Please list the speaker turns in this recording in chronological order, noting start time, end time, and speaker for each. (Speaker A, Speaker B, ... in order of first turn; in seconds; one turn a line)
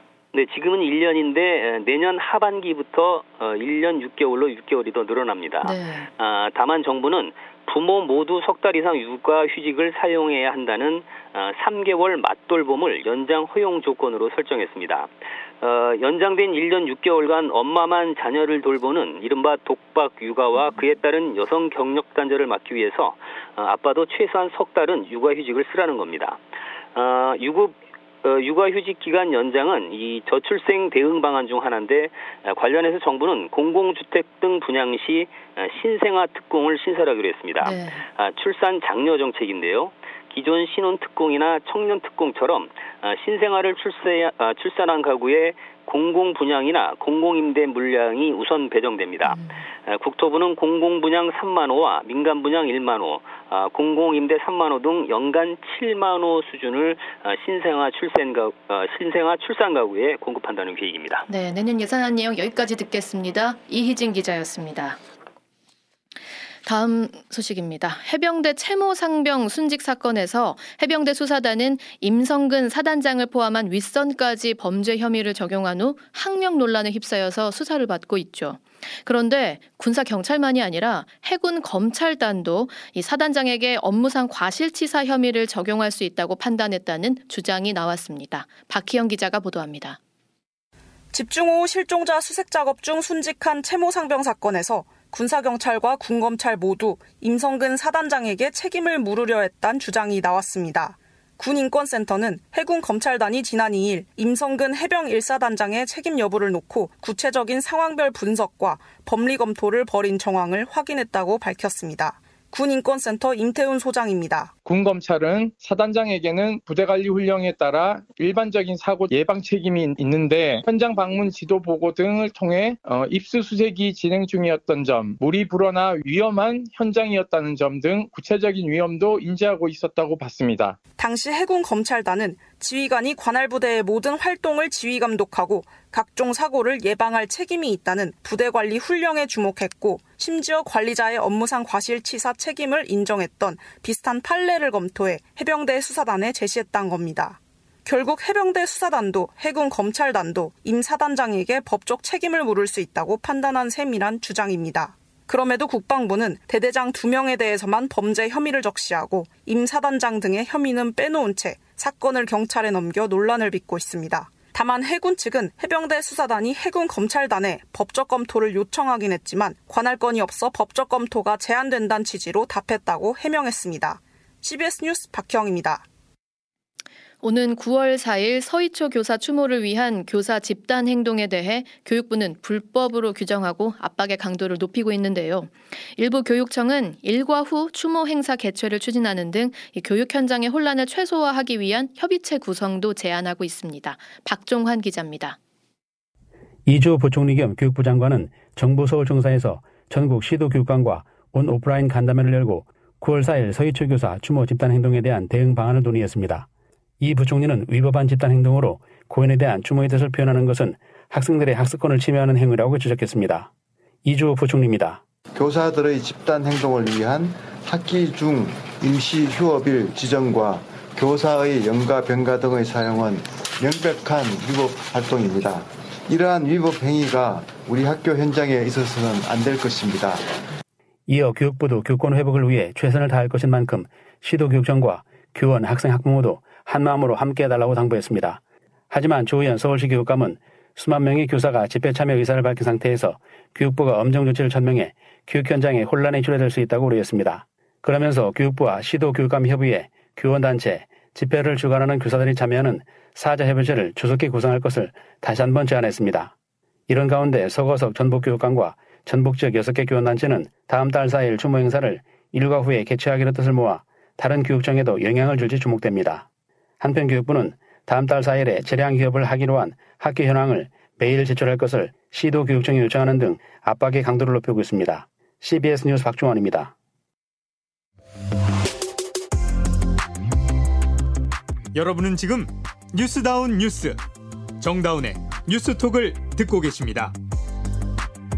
Speaker A: 0.3-26.4
Speaker B: 5.6-6.1
Speaker A: 26.9-61.2
Speaker B: 37.6-38.0
Speaker B: 49.2-49.6
Speaker B: 61.3-65.0
Speaker B: 66.6-90.0
Speaker C: 91.1-114.5
Speaker D: 114.6-130.8
Speaker C: 131.0-175.8
Speaker B: 177.2-195.4
Speaker E: 196.7-206.5
Speaker E: 207.0-213.5
Speaker E: 214.0-215.0
Speaker F: 215.3-230.3
Speaker E: 231.1-256.3
Speaker E: 256.9-266.2
Speaker E: 266.8-276.7
Speaker G: 281.7-284.0
Speaker G: 284.6-287.1